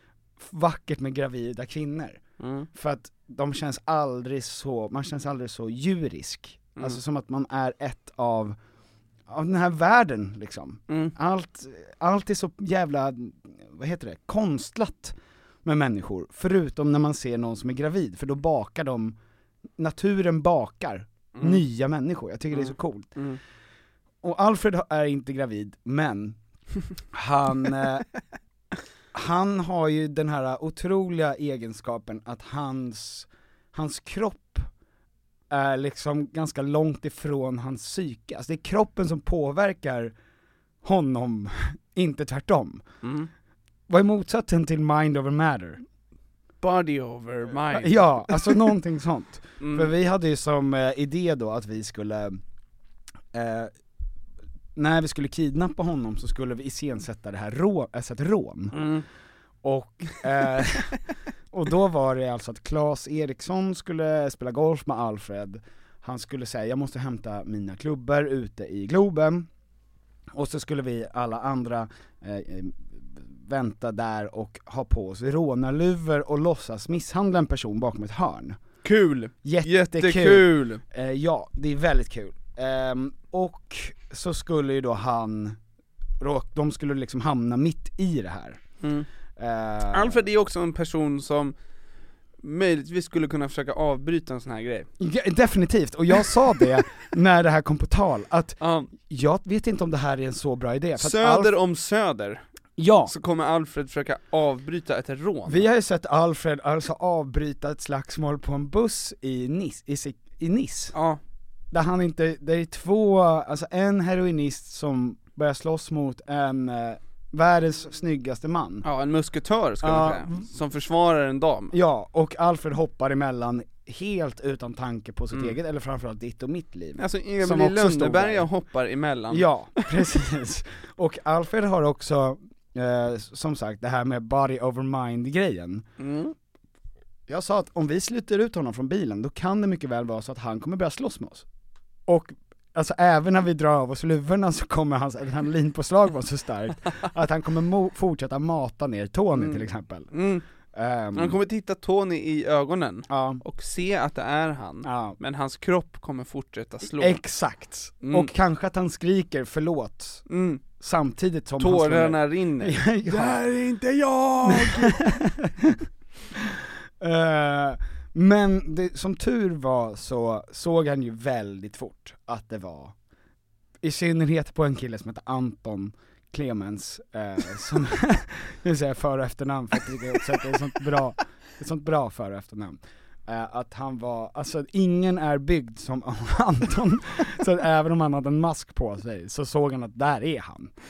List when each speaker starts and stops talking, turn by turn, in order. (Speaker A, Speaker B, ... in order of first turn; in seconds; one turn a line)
Speaker A: 0.4-2.2
Speaker B: 2.4-2.7
Speaker A: 2.7-8.6
Speaker A: 9.3-19.2
Speaker B: 10.9-11.1
Speaker A: 19.8-23.2
Speaker B: 21.4-21.6
Speaker B: 22.5-23.4
Speaker A: 24.2-26.4
Speaker A: 27.1-28.1
Speaker A: 29.1-34.7
Speaker A: 35.5-40.1
Speaker A: 40.8-42.8
Speaker B: 43.0-43.3
Speaker A: 43.9-45.8
Speaker B: 46.6-48.7
Speaker A: 47.7-52.4
Speaker B: 49.6-49.9
Speaker A: 53.3-53.7
Speaker A: 54.8-58.9
Speaker B: 58.7-59.0
Speaker A: 59.6-61.0
Speaker A: 61.5-69.5
Speaker A: 70.3-78.6
Speaker B: 78.8-80.8
Speaker A: 79.4-85.6
Speaker A: 86.2-88.6
Speaker B: 88.8-89.1
Speaker A: 89.4-90.2
Speaker B: 89.9-91.5
Speaker B: 92.4-94.9
Speaker A: 95.0-101.5
Speaker B: 98.6-98.9
Speaker B: 101.0-102.4
Speaker A: 102.8-103.1
Speaker B: 103.1-105.6
Speaker A: 105.5-111.0
Speaker B: 111.0-111.2
Speaker A: 111.7-118.9
Speaker B: 118.8-121.8
Speaker A: 119.8-120.4
Speaker A: 121.7-128.5
Speaker B: 127.0-130.1
Speaker A: 129.3-135.9
Speaker B: 136.0-136.3
Speaker A: 137.3-141.5
Speaker A: 142.1-150.1
Speaker B: 149.4-150.4
Speaker A: 150.7-151.4
Speaker B: 151.2-157.2
Speaker A: 153.1-153.4
Speaker A: 154.8-155.2
Speaker A: 157.0-160.2
Speaker B: 158.0-158.3
Speaker B: 160.3-160.6
Speaker A: 160.8-163.4
Speaker B: 161.6-165.1
Speaker A: 164.4-172.9
Speaker A: 173.8-190.7